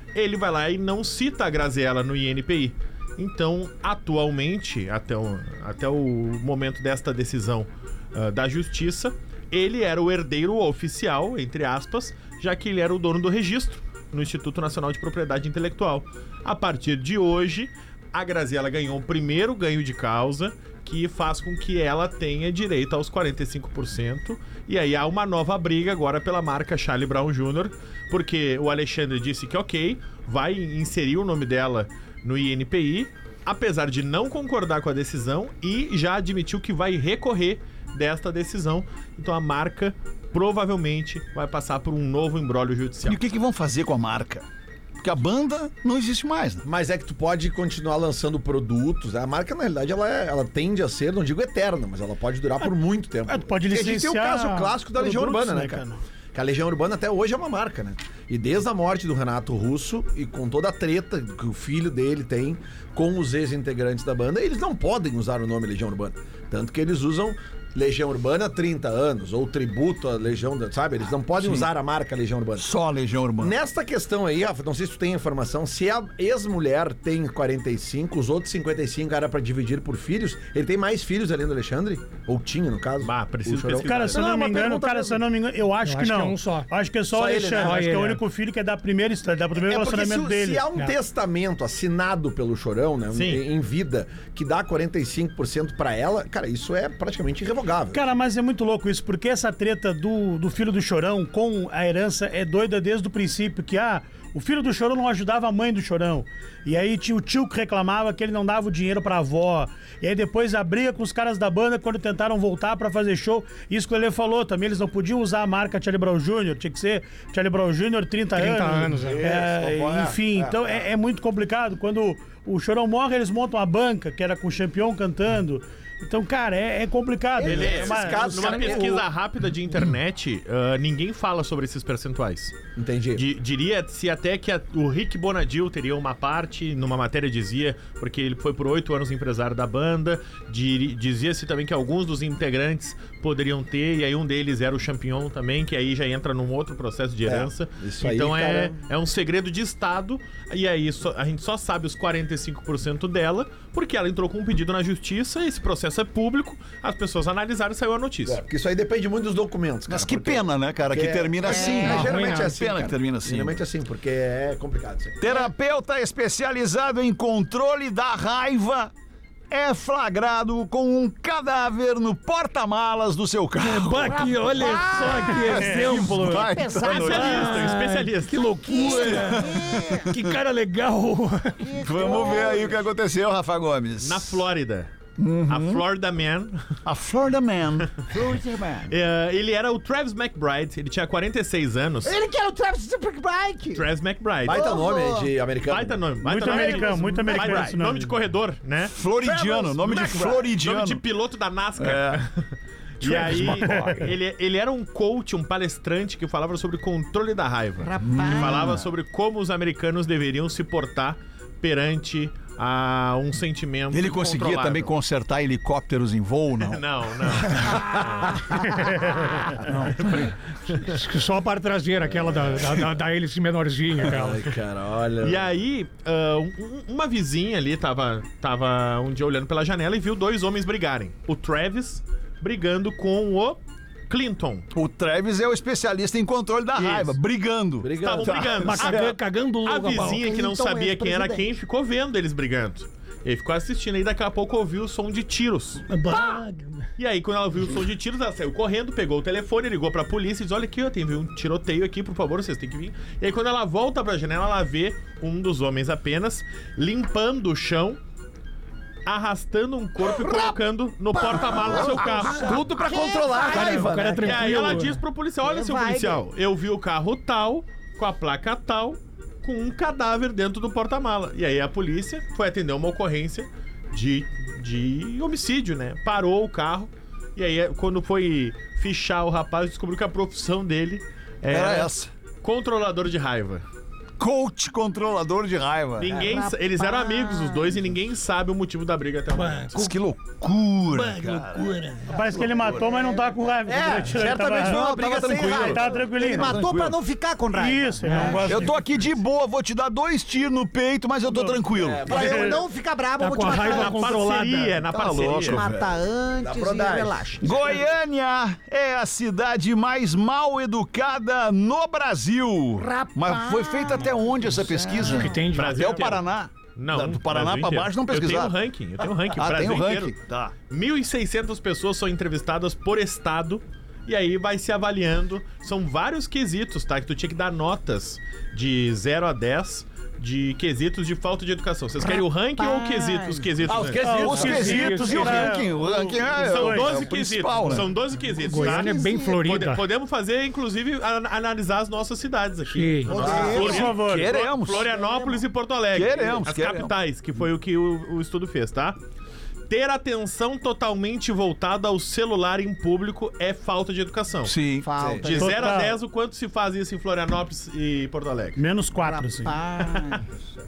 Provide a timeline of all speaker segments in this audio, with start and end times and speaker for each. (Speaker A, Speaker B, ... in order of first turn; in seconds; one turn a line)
Speaker A: 0.1-43.2
Speaker B: 43.0-44.5
Speaker B: 45.0-46.6
Speaker C: 46.6-55.8
Speaker D: 53.3-56.0
Speaker C: 56.3-72.7
Speaker B: 71.4-71.7
Speaker B: 72.6-73.6
Speaker C: 73.4-85.2
Speaker A: 83.0-84.2
Speaker D: 83.8-90.7
Speaker E: 85.8-86.7
Speaker C: 87.1-87.9
Speaker E: 87.5-88.2
Speaker C: 89.5-98.0
Speaker A: 93.1-93.4
Speaker D: 97.9-128.9
Speaker E: 118.3-119.2
Speaker C: 119.0-120.8
Speaker C: 127.4-129.1
Speaker A: 127.4-132.5
Speaker C: 132.8-133.2
Speaker A: 133.2-158.4
Speaker C: 147.3-148.8
Speaker C: 158.3-165.2
Speaker B: 159.9-163.6
Speaker F: 161.5-162.1
Speaker E: 161.6-162.5
Speaker B: 165.2-168.9
Speaker B: 169.5-174.5
Speaker E: 173.6-181.6
Speaker F: 174.0-177.6
Speaker B: 175.3-177.7
Speaker A: 176.8-178.5
Speaker F: 178.6-180.1
Speaker B: 178.9-180.4
Speaker F: 181.6-182.8
Speaker B: 181.8-184.4
Speaker A: 184.0-184.9
Speaker B: 185.2-185.8
Speaker A: 185.5-186.6
Speaker B: 186.8-187.9
Speaker F: 188.1-188.9
Speaker A: 188.9-192.2
Speaker F: 192.0-193.9
Speaker A: 193.7-194.7
Speaker C: 194.4-197.7
Speaker F: 194.5-195.3
Speaker A: 195.7-198.9
Speaker D: 196.2-198.1
Speaker B: 198.9-201.0
Speaker C: 199.2-200.5
Speaker A: 200.6-202.5
Speaker B: 201.8-202.2
Speaker A: 203.0-214.9
Speaker E: 203.2-204.1
Speaker B: 203.3-203.6
Speaker F: 207.8-208.9
Speaker B: 208.0-208.8
Speaker B: 213.9-216.8
Speaker A: 216.6-218.8
Speaker E: 219.7-220.3
Speaker A: 219.7-221.0
Speaker E: 220.8-224.5
Speaker C: 222.0-222.6
Speaker C: 224.0-225.5
Speaker A: 225.2-234.7
Speaker B: 234.7-239.1
Speaker A: 236.8-237.2
Speaker C: 237.8-238.9
Speaker A: 238.0-245.9
Speaker E: 238.6-240.3
Speaker F: 240.1-241.5
Speaker E: 245.9-246.8
Speaker A: 247.0-258.0
Speaker A: 259.1-262.7
Speaker F: 260.1-260.5
Speaker F: 261.1-264.3
Speaker C: 261.4-264.8
Speaker E: 263.5-265.0
Speaker A: 264.2-281.9
Speaker F: 265.4-266.2
Speaker B: 281.5-282.1
Speaker A: 282.4-283.6
Speaker B: 284.2-286.2
Speaker A: 286.0-289.8
Speaker F: 286.1-287.9
Speaker E: 289.3-289.9
Speaker B: 289.7-291.8
Speaker E: 290.9-292.1
Speaker D: 292.1-296.6
Speaker C: 293.6-296.0
Speaker B: 294.4-296.9
Speaker F: 296.0-298.7
Speaker D: 297.6-298.8
Speaker E: 298.1-298.4
Speaker B: 298.5-302.2
Speaker C: 301.7-302.6
Speaker F: 302.1-304.1
Speaker D: 302.1-302.6
Speaker E: 303.2-304.9
Speaker A: 303.5-305.6
Speaker B: 304.9-305.9
Speaker F: 305.2-307.8
Speaker C: 306.4-307.6
Speaker B: 307.4-318.5
Speaker F: 312.8-315.5
Speaker E: 315.0-316.0
Speaker A: 315.5-316.2
Speaker A: 316.8-320.1
Speaker B: 319.3-320.5
Speaker A: 320.7-334.3
Speaker F: 332.0-333.9
Speaker C: 333.7-334.9
Speaker D: 334.0-336.9
Speaker B: 334.2-337.9
Speaker E: 334.3-335.6
Speaker A: 336.4-349.0
Speaker E: 338.4-339.8
Speaker F: 338.5-339.4
Speaker E: 342.7-343.2
Speaker F: 343.1-343.9
Speaker C: 343.1-343.7
Speaker D: 343.5-344.4
Speaker B: 343.6-344.9
Speaker F: 344.8-345.4
Speaker B: 345.9-346.9
Speaker A: 349.7-354.6
Speaker B: 354.4-354.9
Speaker F: 354.8-355.7
Speaker C: 355.0-355.3
Speaker A: 355.2-358.6
Speaker D: 355.4-356.0
Speaker D: 358.6-359.6
Speaker F: 358.9-360.4